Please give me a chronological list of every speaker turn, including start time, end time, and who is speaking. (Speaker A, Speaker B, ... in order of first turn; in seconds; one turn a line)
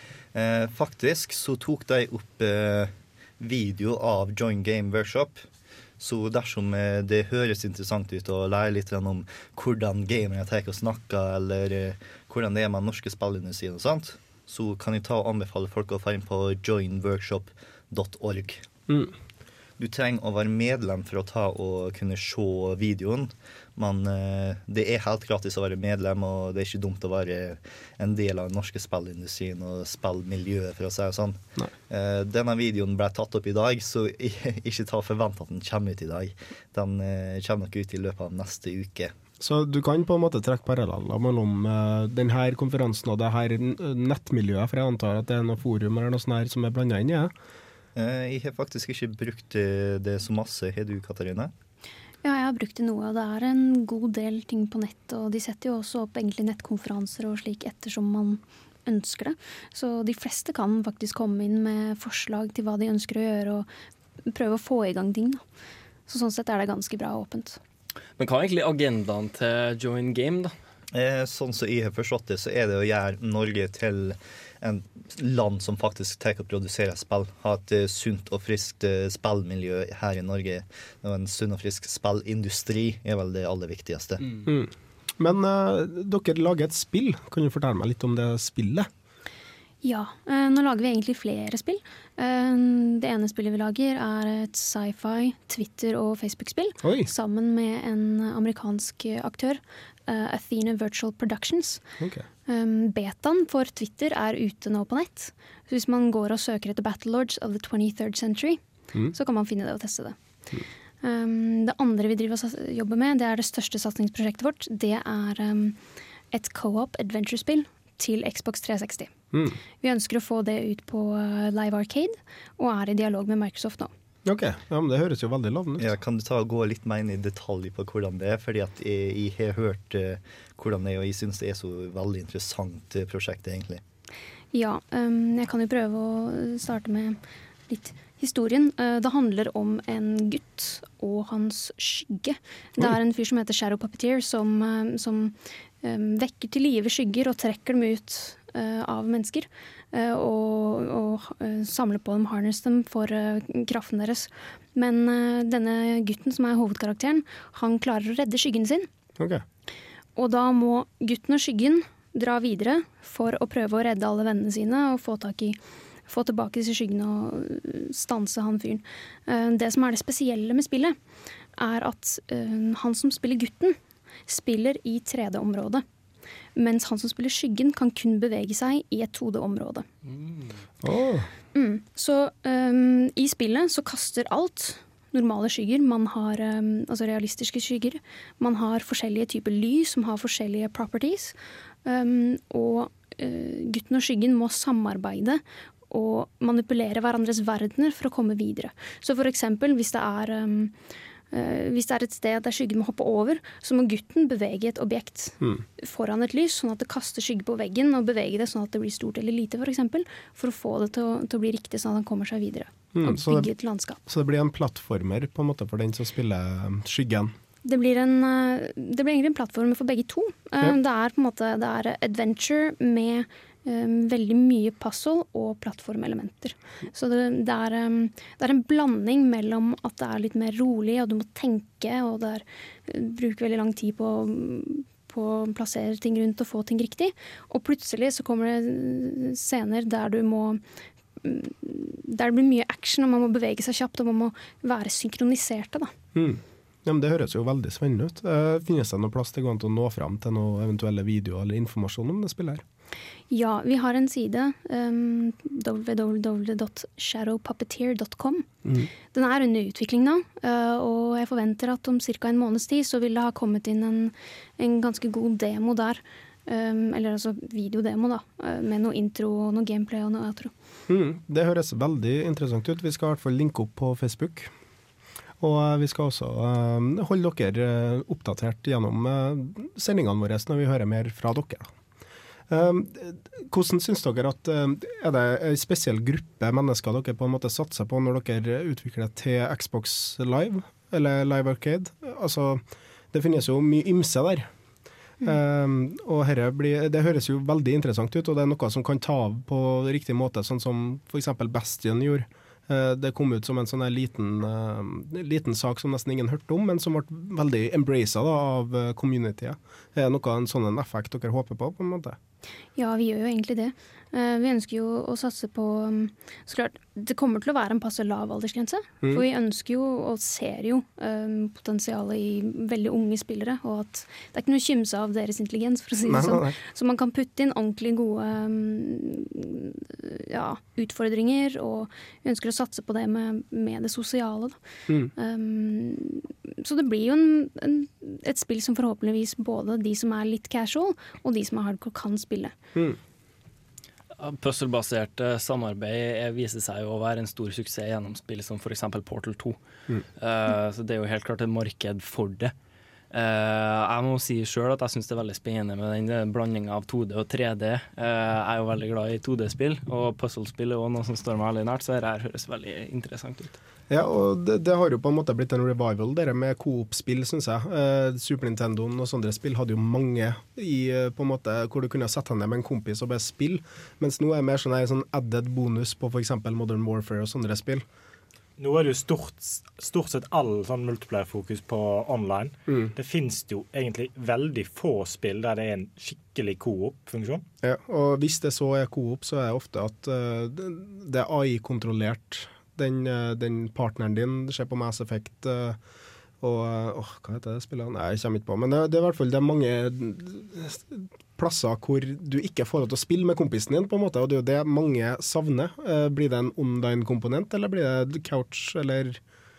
Speaker A: 0.3-5.4
Speaker A: 6.0-18.6
Speaker A: 19.8-39.1
Speaker B: 39.4-47.3
Speaker A: 47.9-51.5
Speaker C: 52.2-63.7
Speaker C: 64.3-65.4
Speaker C: 66.1-67.6
Speaker D: 68.2-70.5
Speaker A: 70.9-84.2
Speaker B: 84.4-88.9
Speaker C: 89.8-101.8
Speaker B: 96.8-97.1
Speaker B: 102.0-102.2
Speaker C: 102.5-108.6
Speaker C: 109.1-110.2
Speaker C: 111.0-115.8
Speaker C: 116.3-119.1
Speaker B: 119.3-119.6
Speaker C: 119.8-123.9
Speaker B: 124.2-125.9
Speaker A: 125.8-133.8
Speaker C: 134.5-158.9
Speaker B: 159.2-159.4
Speaker C: 160.2-171.0
Speaker C: 171.6-175.8
Speaker C: 176.6-179.8
Speaker D: 180.1-180.6
Speaker B: 180.8-181.3
Speaker C: 181.5-200.7
Speaker C: 201.3-214.0
Speaker B: 212.9-213.5
Speaker B: 214.1-217.3
Speaker C: 217.6-240.6
Speaker C: 241.2-245.9
Speaker B: 246.1-252.6
Speaker C: 253.3-258.5
Speaker B: 258.6-258.9
Speaker C: 259.1-270.5
Speaker B: 270.9-274.5
Speaker B: 275.4-281.7
Speaker B: 282.5-294.5
Speaker B: 295.2-312.2
Speaker C: 312.8-334.6
Speaker B: 326.1-326.5
Speaker C: 335.1-342.6
Speaker D: 344.2-349.6
Speaker D: 350.2-352.5
Speaker D: 353.1-363.5
Speaker B: 363.9-377.8
Speaker E: 378.6-387.4
Speaker B: 387.6-395.8
Speaker B: 396.4-409.2